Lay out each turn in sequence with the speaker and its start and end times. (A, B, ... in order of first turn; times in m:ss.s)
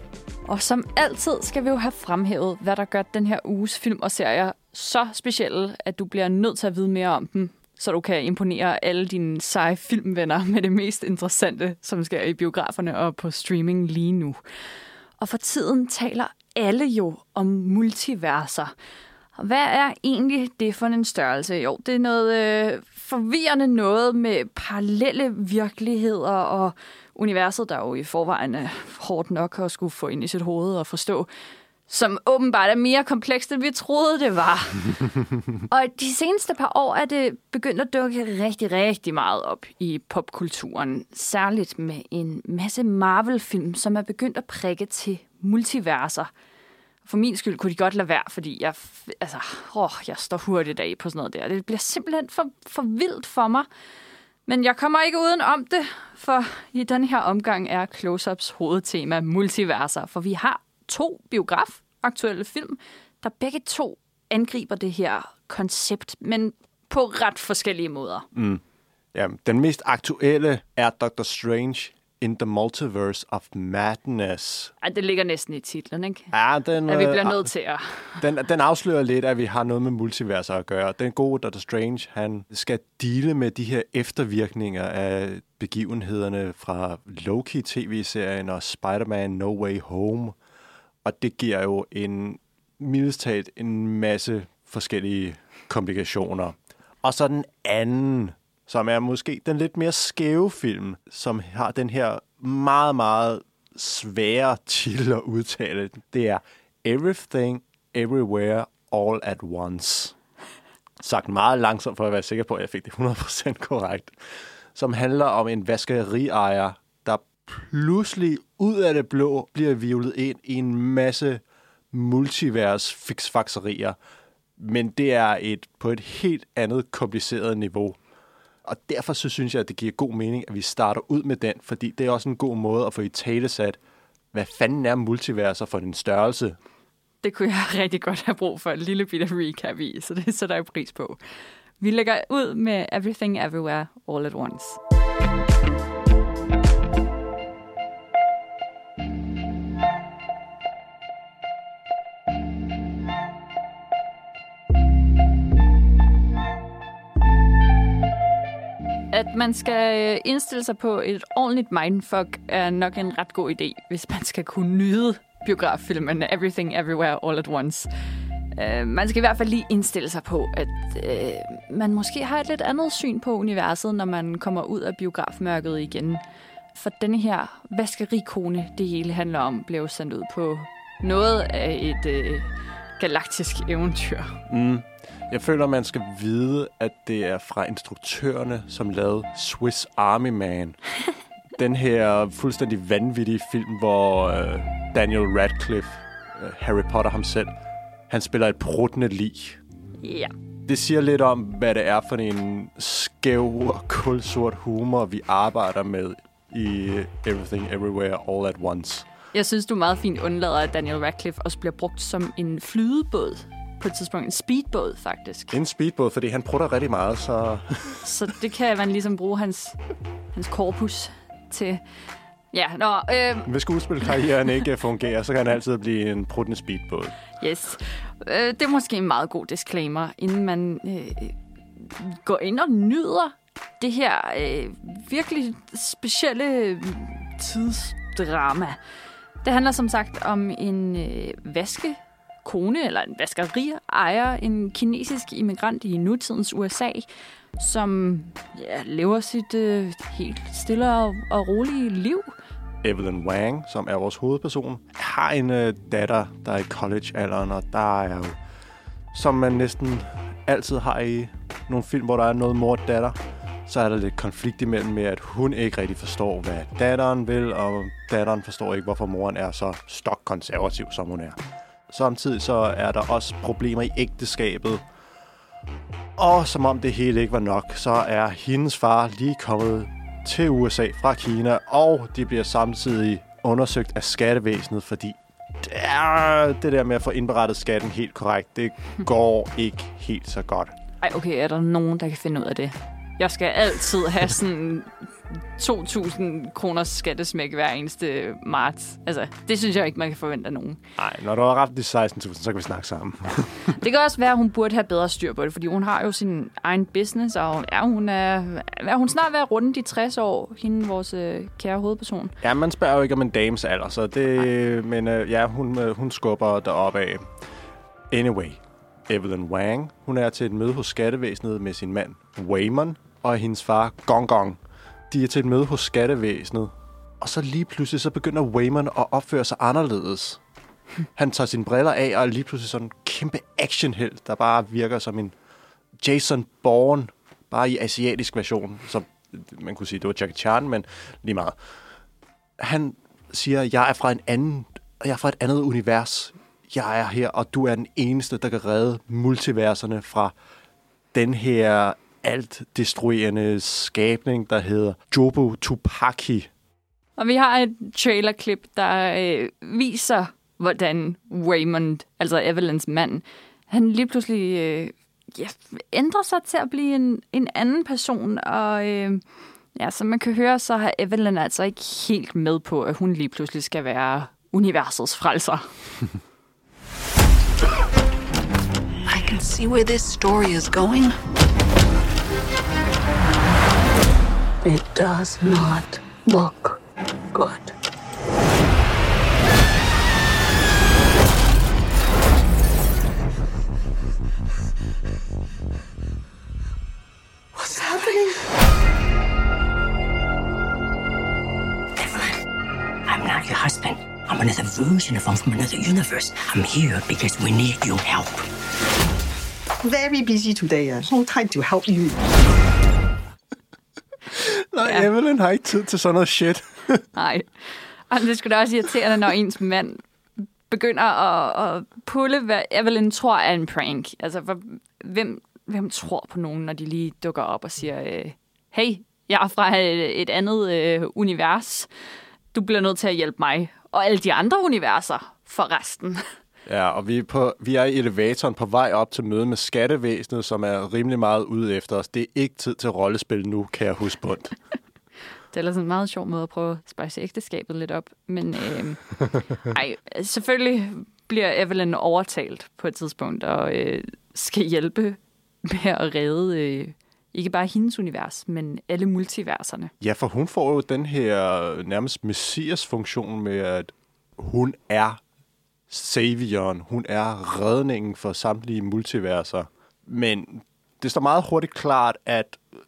0:00.5-0:14.4 A
0:15.2-0:18.7 A
0:19.4-0:31.3 A
0:31.9-0:35.0 A
0:35.7-0:46.3 A
0:47.0-0:53.7 A
0:54.5-1:08.3 A
1:08.3-1:08.6 B
1:09.1-1:14.7 B
1:14.8-1:16.3 A
1:16.3-1:17.5 B
1:16.9-1:18.2 A
1:18.2-1:30.4 B
1:31.0-1:50.1 B
1:51.0-1:54.1 B
1:54.7-2:04.0 B
2:04.6-2:08.0 B
2:08.6-2:13.8 B
2:14.3-2:16.6 B
2:17.2-2:21.2 A
2:21.8-2:24.8 A
2:39.1-2:47.9 A
2:48.6-2:56.2 A
2:56.8-3:04.4 A
3:04.5-3:10.8 B
3:11.6-3:17.5 B
3:18.1-3:19.6 B
3:20.0-3:20.3 A
3:20.7-3:29.1 B
3:29.3-3:35.6 A
3:35.5-3:38.0 B
3:38.0-3:39.8 A
3:40.4-3:41.8 A
3:42.5-3:43.5 A
3:43.4-3:47.2 B
3:47.4-3:58.8 A
3:59.4-4:07.1 A
4:07.6-4:12.3 A
4:12.8-4:18.4 B
4:19.1-4:31.4 B
4:31.9-4:34.8 B
4:36.2-4:50.8 B
4:51.0-5:00.8 A
5:01.0-5:03.7 B
5:03.7-5:12.3 A
5:12.4-5:17.3 B
5:18.1-5:30.4 B
5:31.2-5:35.3 B
5:36.0-5:41.6 B
5:42.6-5:50.3 B
5:51.1-5:56.5 B
5:57.2-6:09.2 A
6:09.8-6:15.7 A
6:19.1-6:21.2 C
6:24.6-6:26.8 C
6:27.3-6:27.7 C
6:37.6-6:38.4 D
6:42.0-6:42.3 D
6:43.1-6:48.5 D
6:49.8-6:52.1 E
6:51.7-6:52.1 D
6:54.3-6:57.1 B
6:57.2-7:00.0 A
7:00.7-7:11.9 A
7:12.5-7:16.2 A
7:16.7-7:24.6 B
7:25.5-7:39.9 A
7:40.0-7:45.2 B
7:45.9-7:52.6 B